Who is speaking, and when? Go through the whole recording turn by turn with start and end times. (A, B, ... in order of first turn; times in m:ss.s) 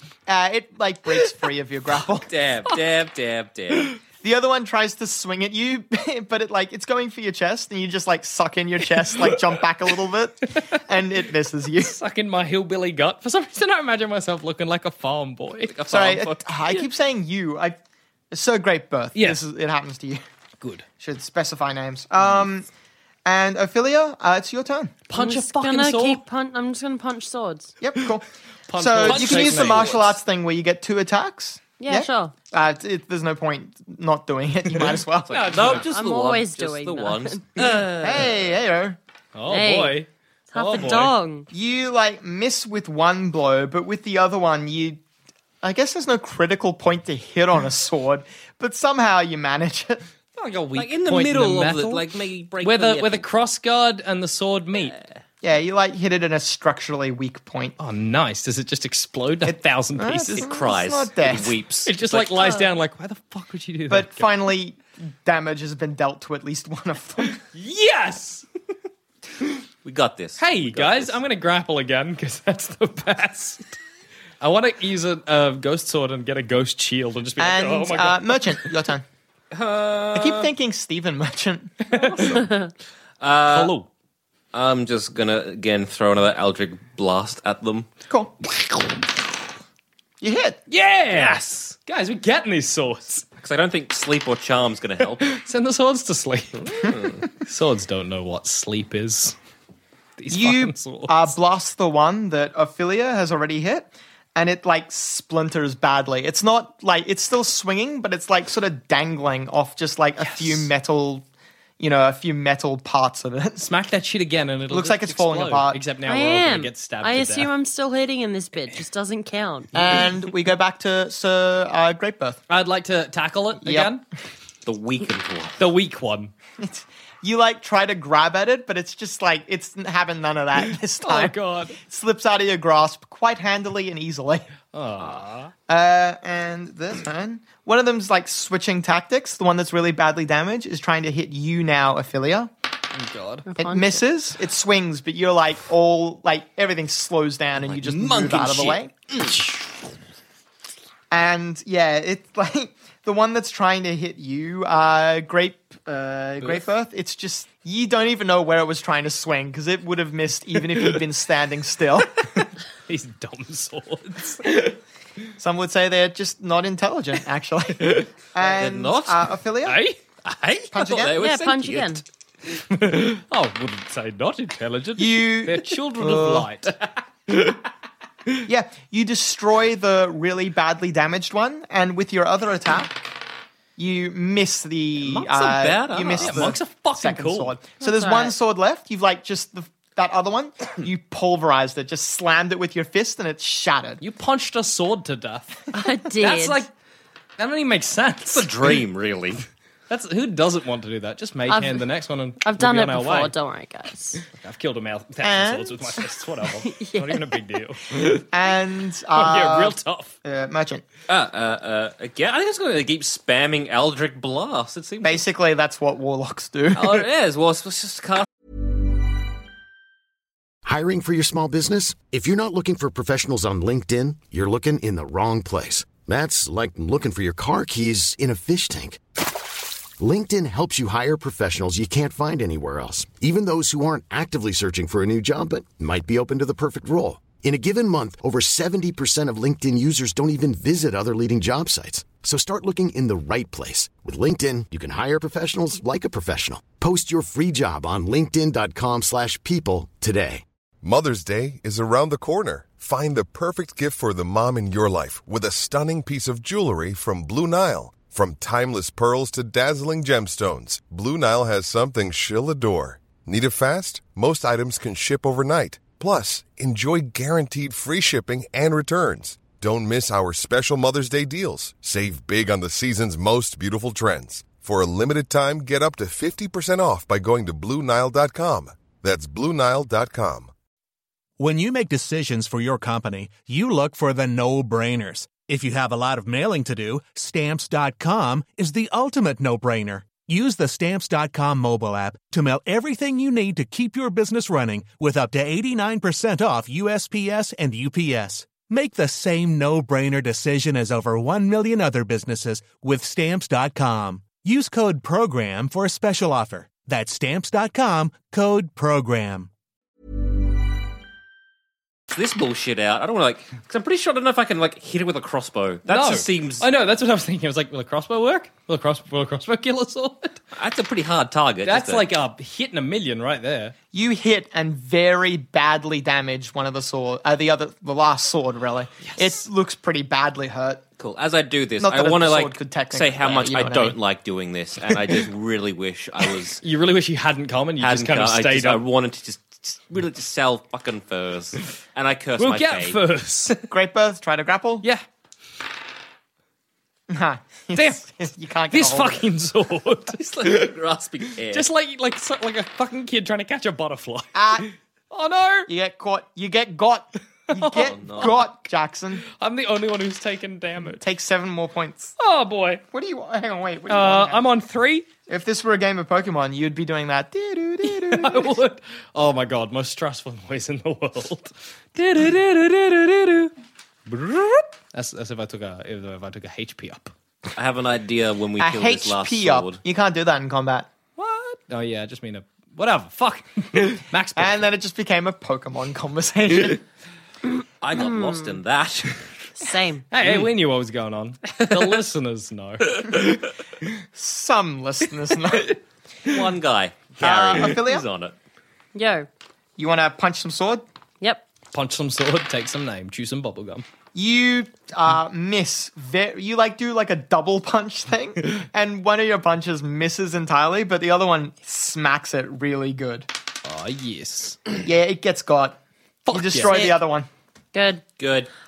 0:00.3-0:02.3 A
0:02.3-0:04.0 B
0:04.2-0:12.0 A
0:11.8-0:15.7 C
0:15.7-0:16.4 B
0:15.9-0:17.8 A
0:18.3-0:20.2 A
0:19.2-0:19.4 C
0:20.6-0:20.9 C
0:21.0-0:22.7 A
0:23.2-0:25.1 A
0:25.1-0:26.2 C
0:25.1-0:27.7 D
0:27.8-0:35.7 A
0:28.7-0:30.1 C
0:29.0-0:30.1 B
0:31.8-0:32.3 D
0:35.3-0:35.8 C
0:35.5-0:38.4 B
0:35.8-0:37.4 D
0:38.0-0:39.0 A
0:39.4-0:41.2 C
0:39.5-0:40.0 D
0:40.5-0:41.5 D
0:41.5-0:45.0 A
0:45.6-0:50.0 A
0:50.4-0:52.1 C
0:50.8-0:53.3 B
0:52.6-0:55.0 C
0:55.4-0:57.8 A
0:57.8-1:00.4 C
0:59.4-1:01.6 A
1:00.3-1:02.5 B
1:01.9-1:04.3 C
1:02.4-1:02.7 D
1:03.9-1:07.4 A
1:07.5-1:08.5 C
1:09.8-1:11.2 B
1:10.4-1:13.8 C
1:14.4-1:18.7 C
1:17.4-1:19.0 A
1:19.5-1:20.5 B
1:20.2-1:21.8 A
1:21.9-1:22.4 C
1:22.3-1:22.7 D
1:23.2-1:23.7 B
1:23.5-1:23.9 C
1:24.5-1:27.9 B
1:28.1-1:28.3 A
1:30.2-1:30.6 A
1:30.7-1:33.3 C
1:31.1-1:31.8 B
1:33.4-1:35.3 B
1:35.2-1:39.4 C
1:36.8-1:37.2 B
1:40.2-1:41.4 C
1:40.3-1:51.3 A
1:50.2-1:50.7 C
1:51.8-1:53.6 A
1:53.6-1:57.5 C
1:54.7-1:55.9 A
1:56.0-1:59.7 D
1:59.7-2:02.4 A
2:02.5-2:04.0 C
2:03.6-2:03.9 A
2:04.7-2:05.6 B
2:05.6-2:06.3 C
2:06.6-2:14.5 A
2:11.0-2:11.8 C
2:14.7-2:15.5 C
2:15.7-2:22.5 A
2:22.9-2:23.5 C
2:23.5-2:24.0 D
2:23.6-2:28.9 A
2:27.7-2:28.8 B
2:29.2-2:29.7 C
2:31.1-2:42.4 A
2:42.9-2:44.8 C
2:45.4-2:49.8 A
2:48.4-2:49.3 B
2:49.6-2:50.0 C
2:50.2-2:52.0 B
2:50.7-2:51.2 A
2:51.2-2:52.0 D
2:52.5-2:56.8 C
2:55.0-2:56.5 A
2:58.4-3:03.0 A
3:03.8-3:14.0 A
3:05.2-3:06.6 B
3:06.2-3:07.6 C
3:07.8-3:08.4 D
3:14.0-3:16.7 C
3:15.7-3:16.7 D
3:17.4-3:18.8 C
3:18.3-3:19.4 B
3:19.9-3:23.3 C
3:21.5-3:21.8 D
3:22.4-3:24.2 D
3:24.3-3:28.2 C
3:25.2-3:26.0 A
3:26.6-3:27.4 D
3:28.1-3:30.9 A
3:29.1-3:30.2 C
3:31.1-3:35.2 B
3:35.0-3:37.1 A
3:36.8-3:38.3 B
3:40.6-3:49.0 E
3:50.0-4:10.4 E
4:10.8-4:40.5 F
4:41.4-5:09.5 G
5:12.1-5:16.7 B
5:15.9-5:20.4 C
5:20.5-5:22.1 B
5:21.6-5:23.8 C
5:23.9-5:30.8 A
5:29.0-5:29.4 C
5:31.0-5:36.6 B
5:31.8-5:34.0 A
5:36.6-5:38.8 C
5:37.8-5:43.0 B
5:42.4-5:43.6 C
5:43.7-5:44.8 A
5:47.1-5:49.2 A
5:47.7-5:48.1 C
5:48.7-5:50.7 C
5:50.1-5:51.7 B
5:51.5-5:55.7 C
5:54.3-5:54.7 A
5:55.7-5:59.2 A
5:57.5-5:58.4 C
5:57.7-5:58.4 B
5:59.4-6:01.0 C
6:01.0-6:02.1 A
6:02.2-6:02.8 C
6:02.9-6:04.4 A
6:03.9-6:05.1 C
6:05.3-6:08.6 A
6:07.8-6:12.3 C
6:12.0-6:13.5 B
6:14.1-6:17.1 C
6:17.5-6:19.8 B
6:18.6-6:20.9 A
6:21.2-6:24.6 C
6:24.4-6:26.8 A
6:27.8-6:29.3 B
6:28.0-6:28.6 D
6:29.6-6:30.0 D
6:30.1-6:33.4 C
6:34.2-6:35.8 A
6:36.3-6:38.4 B
6:37.2-6:38.1 A
6:39.0-6:39.3 D
6:39.8-6:40.8 A
6:41.7-6:43.8 C
6:44.2-6:53.3 A
6:53.6-6:54.6 C
6:54.8-6:55.8 A
6:56.3-6:56.9 C
6:56.3-6:57.3 A
6:57.7-6:58.0 D
6:58.2-6:58.5 B